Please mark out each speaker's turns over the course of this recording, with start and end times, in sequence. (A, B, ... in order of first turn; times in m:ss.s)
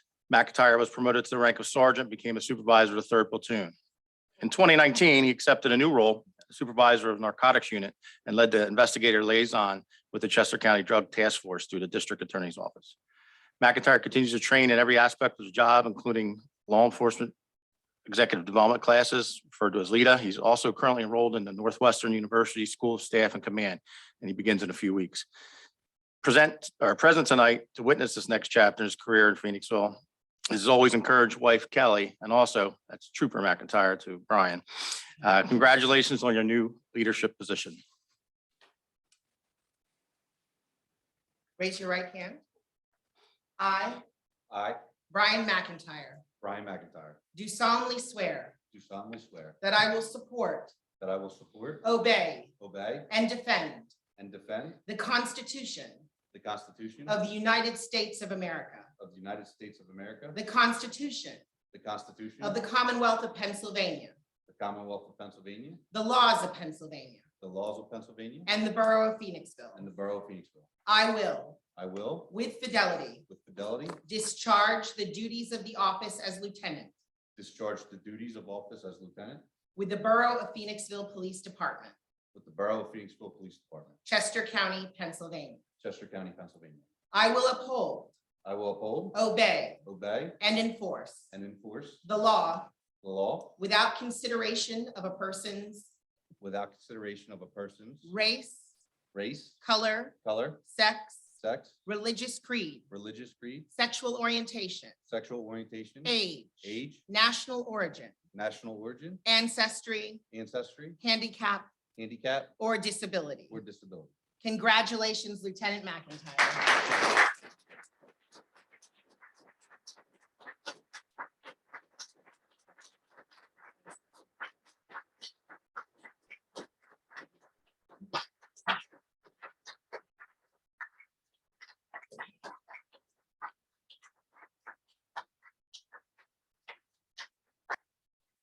0:00.3-0:03.7 A
0:04.4-0:12.9 A
0:13.6-0:17.3 A
0:18.0-0:25.2 A
0:26.2-0:30.0 A
0:30.5-0:34.6 A
0:35.2-0:37.8 A
0:41.6-0:42.4 B
0:43.6-0:44.0 B
0:44.5-0:44.8 C
0:45.1-0:46.2 B
0:46.4-0:47.2 C
0:47.3-0:48.6 B
0:48.7-0:49.6 C
0:49.6-0:50.7 B
0:51.0-0:51.8 C
0:51.8-0:52.5 B
0:52.6-0:53.1 C
0:53.1-0:53.9 B
0:54.2-0:54.8 C
0:54.8-0:56.0 B
0:56.3-0:57.2 C
0:57.1-0:58.9 B
0:59.0-1:00.4 C
1:00.3-1:01.4 B
1:01.7-1:02.6 C
1:02.4-1:04.1 B
1:04.5-1:05.8 C
1:05.9-1:07.2 B
1:07.4-1:08.5 C
1:08.4-1:09.8 B
1:09.7-1:10.7 C
1:10.8-1:11.6 B
1:11.7-1:12.3 C
1:12.3-1:13.2 B
1:13.3-1:14.0 C
1:14.0-1:16.9 B
1:17.4-1:19.4 C
1:19.7-1:21.9 B
1:22.3-1:24.0 C
1:24.0-1:25.6 B
1:25.8-1:26.8 C
1:27.1-1:28.1 B
1:28.4-1:29.2 C
1:29.1-1:29.8 B
1:29.8-1:30.4 C
1:30.4-1:31.3 B
1:31.3-1:32.0 C
1:32.0-1:32.7 B
1:33.0-1:33.6 C
1:33.6-1:35.9 B
1:36.4-1:38.1 C
1:38.0-1:38.7 B
1:39.1-1:39.6 C
1:39.6-1:41.3 B
1:40.2-1:40.6 C
1:41.4-1:41.8 C
1:41.8-1:42.9 B
1:42.9-1:43.7 C
1:43.7-1:44.9 B
1:45.1-1:47.0 C
1:46.0-1:48.2 B
1:48.3-1:49.2 C
1:49.2-1:50.2 B
1:50.3-1:51.0 C
1:51.0-1:51.7 B
1:52.0-1:52.5 C
1:52.6-1:53.5 B
1:53.5-1:54.1 C
1:54.4-1:56.9 B